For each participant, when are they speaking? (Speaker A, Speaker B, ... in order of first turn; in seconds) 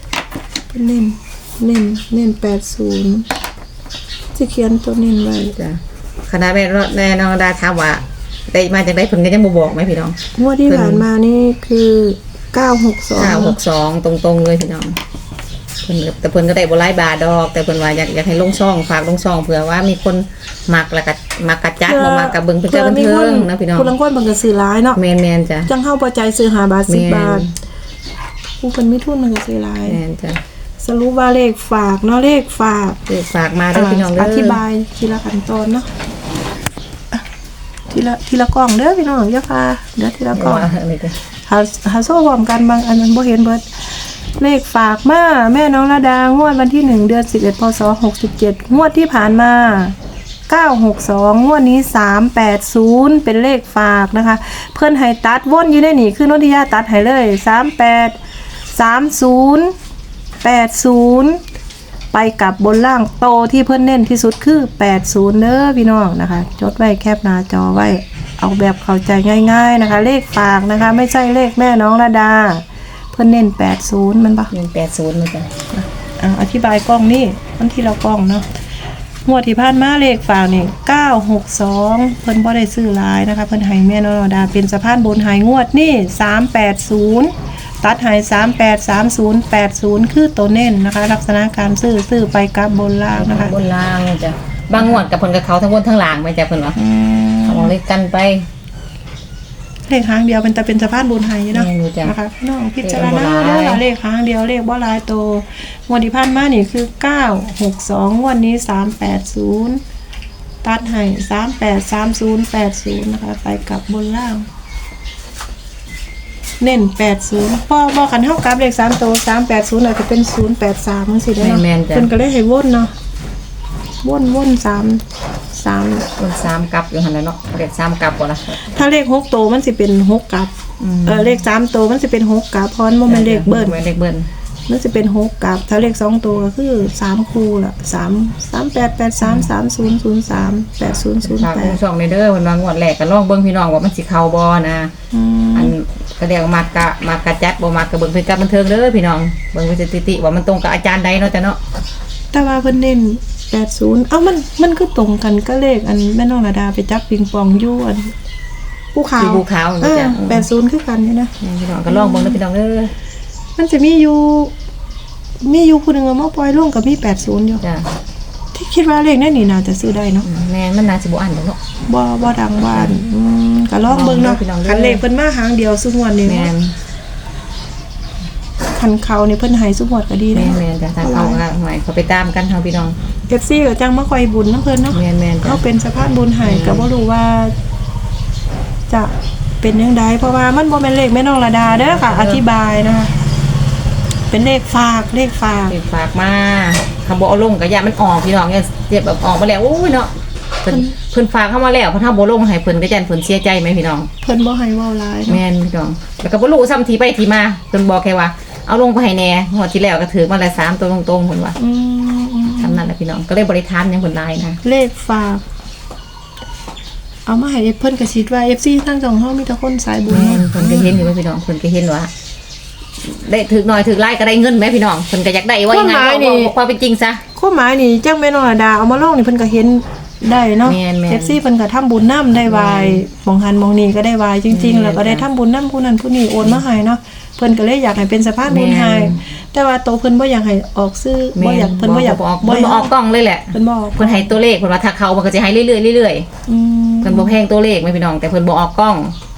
Speaker A: 0.7-3.3, 4.3-5.5, 10.3-13.6, 21.8-25.0, 25.6-27.4, 28.6-30.0, 30.8-33.0, 33.7-35.9, 37.9-40.7, 41.5-43.8, 44.4-49.9, 50.5-58.1, 58.7-59.7, 60.4-61.4, 62.1-74.5, 76.2-78.5, 79.2-93.5, 96.8-97.7, 99.9-109.8, 110.6-114.5, 116.6-122.9, 124.0-126.1, 128.6-130.5, 131.1-133.8, 134.7-141.8, 145.1-145.7, 152.3-158.1, 158.9-161.3, 161.9-162.4, 163.6-164.5, 165.4-167.6, 168.5-170.3, 171.9-176.5, 178.7-181.4, 183.3-187.5, 188.9-193.1, 194.3-195.8, 204.2-205.4, 211.6-212.8, 214.6-215.4, 217.2-221.1, 225.7-226.5, 227.3-242.9, 243.5-244.3, 246.5-247.4
Speaker B: 5.5-11.1, 13.2-15.0, 15.8-23.9, 24.9-25.7, 26.9-27.5, 29.8-30.4, 33.1-34.6, 40.3-41.1, 74.5-75.9, 93.2-96.8, 97.4-98.5, 101.5-102.1, 102.8-103.8, 121.4-122.1, 126.2-128.7, 130.8-131.4, 133.1-134.3, 139.2-139.5, 141.2-144.9, 145.5-151.6, 159.2-160.5, 161.4-162.9, 167.6-167.9, 170.2-171.6, 172.7-172.9, 173.8-175.0, 176.2-176.7, 180.3-183.0, 184.9-185.6, 186.4-186.9, 191.6-192.4, 195.7-200.1, 200.6-204.1, 205.3-211.6, 212.5-214.6, 220.1-222.1, 223.0-227.2, 230.6-231.4, 232.4-233.1, 234.5-235.3, 238.4-239.2, 241.3-246.3, 247.0-249.1